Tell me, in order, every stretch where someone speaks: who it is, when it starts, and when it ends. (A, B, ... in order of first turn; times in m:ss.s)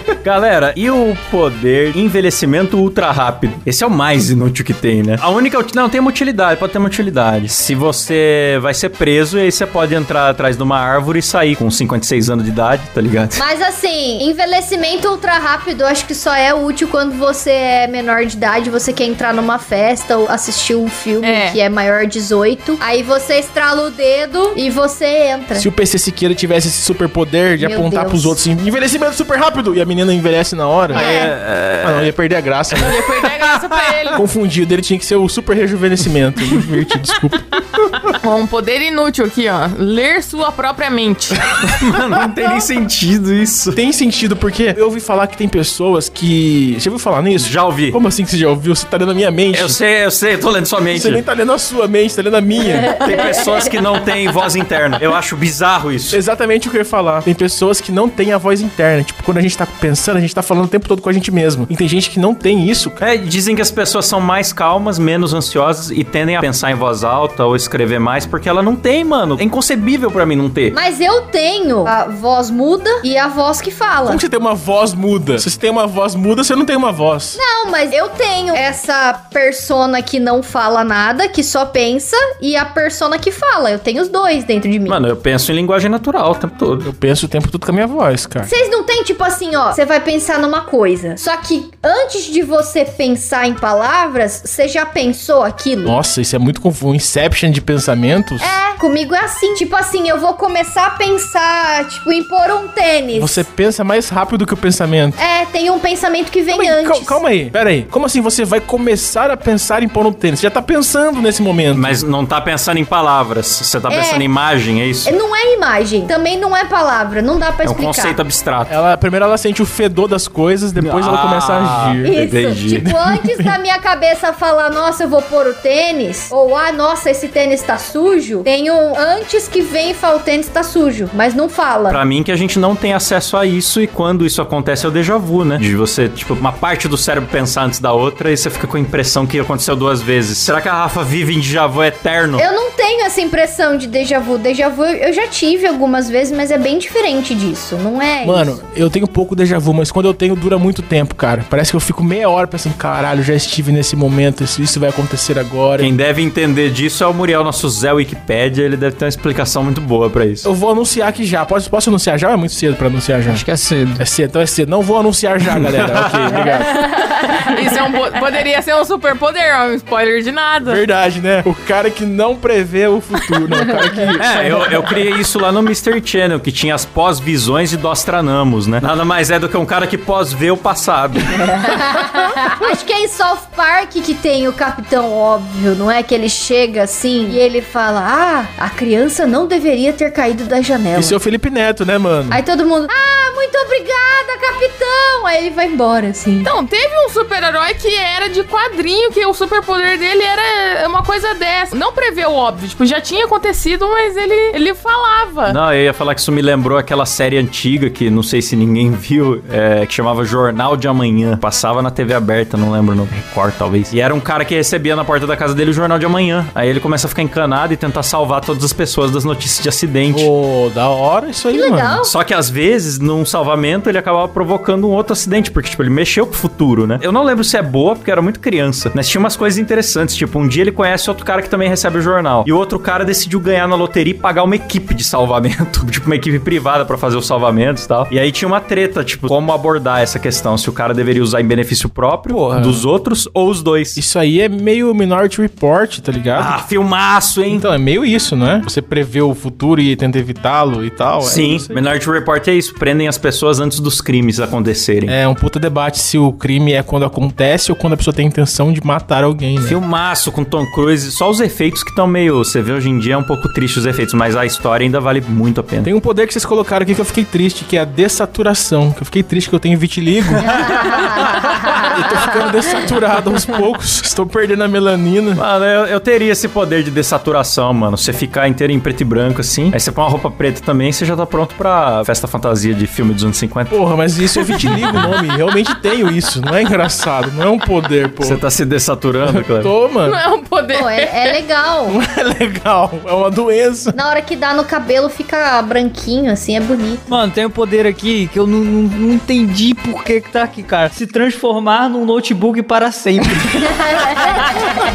0:00.2-0:13.4 A
0:13.4-0:25.7 B
0:21.2-0:21.6 C
0:25.6-0:31.1 D
0:27.6-0:28.4 B
0:30.9-0:32.1 A
0:30.9-0:31.3 B
0:31.8-0:33.0 D
0:32.7-0:34.1 A
0:32.8-0:34.2 C
0:34.2-0:37.8 D
0:38.1-0:41.4 C
0:41.6-0:43.8 A
0:43.7-0:49.8 D
0:47.4-0:48.0 A
0:49.5-0:51.2 A
0:50.9-0:53.0 D
0:52.9-0:56.2 A
0:52.9-0:53.6 B
0:56.1-1:03.0 D
1:03.0-1:10.8 A
1:10.7-1:14.2 B
1:14.0-1:17.4 D
1:17.3-1:25.0 B
1:24.9-1:26.9 A
1:26.8-1:28.5 D
1:28.4-1:36.0 B
1:35.8-1:38.6 D
1:38.4-1:43.4 B
1:43.1-1:45.2 D
1:45.2-1:47.2 B
1:46.5-1:52.0 D
1:51.7-1:55.1 A
1:53.9-1:54.3 B
1:55.0-1:58.2 B
1:57.6-1:58.8 A
1:58.7-2:02.1 D
2:00.8-2:02.9 A
2:02.0-2:12.0 B
2:02.8-2:03.5 D
2:11.9-2:22.4 A
2:22.4-2:28.6 B
2:28.2-2:35.9 D
2:35.8-2:40.5 A
2:40.4-2:43.4 D
2:43.3-2:44.0 E
2:44.0-2:46.9 D
2:45.5-2:46.5 A
2:46.9-2:50.8 C
2:50.6-2:54.9 D
2:54.2-3:01.5 A
3:01.4-3:11.2 B
3:10.9-3:12.4 D
3:12.3-3:16.5 B
3:16.4-3:25.6 C
3:25.5-3:40.3 A
3:40.1-3:42.0 D
3:41.5-3:42.1 B
3:42.0-4:04.0 A
4:02.3-4:02.8 D
4:03.9-4:06.5 D
4:06.3-4:07.7 A
4:07.5-4:11.8 D
4:11.2-4:15.1 A
4:15.0-4:19.8 D
4:19.6-4:25.9 A
4:25.8-4:35.4 D
4:30.3-4:32.2 A
4:30.6-4:31.9 B
4:35.4-4:43.8 A
4:43.7-4:48.4 D
4:44.5-4:45.1 A
4:48.2-4:49.7 A
4:49.3-4:50.2 D
4:50.0-4:51.4 C
4:50.7-4:52.0 B
4:51.9-4:54.0 D
4:53.9-4:57.0 B
4:57.1-5:04.7 E
5:03.8-5:04.5 B